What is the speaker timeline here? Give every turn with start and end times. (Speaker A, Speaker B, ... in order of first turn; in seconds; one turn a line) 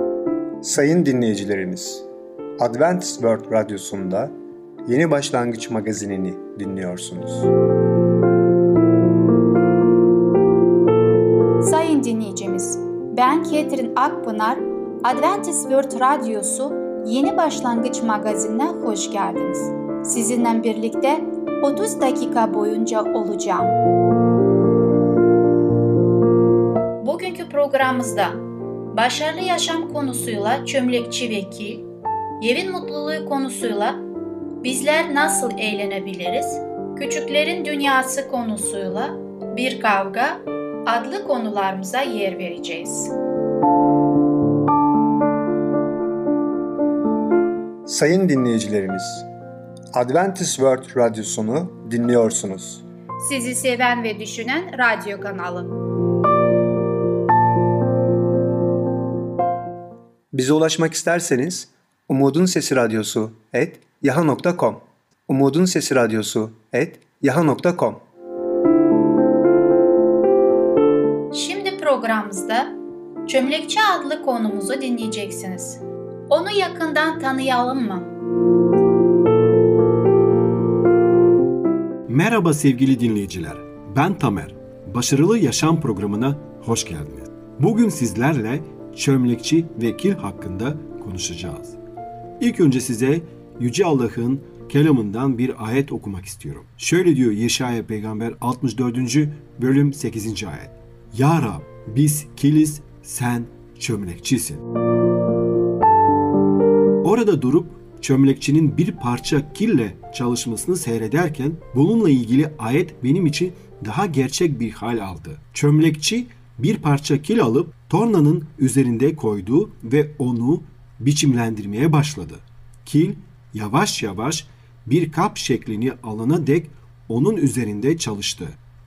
Speaker A: 0.6-2.0
Speaker A: 2.6-4.3
Speaker A: 4.9-7.5
Speaker B: 11.6-23.8
Speaker B: 27.0-28.4
Speaker B: 28.9-31.9
Speaker B: 32.4-34.0
Speaker B: 34.6-43.1
Speaker A: 47.9-49.3
Speaker A: 49.9-52.8
Speaker B: 53.2-55.7
Speaker A: 60.3-68.0
Speaker B: 71.3-72.7
Speaker B: 73.3-78.1
Speaker C: 82.1-91.8
Speaker C: 92.4-104.6
Speaker C: 107.0-128.6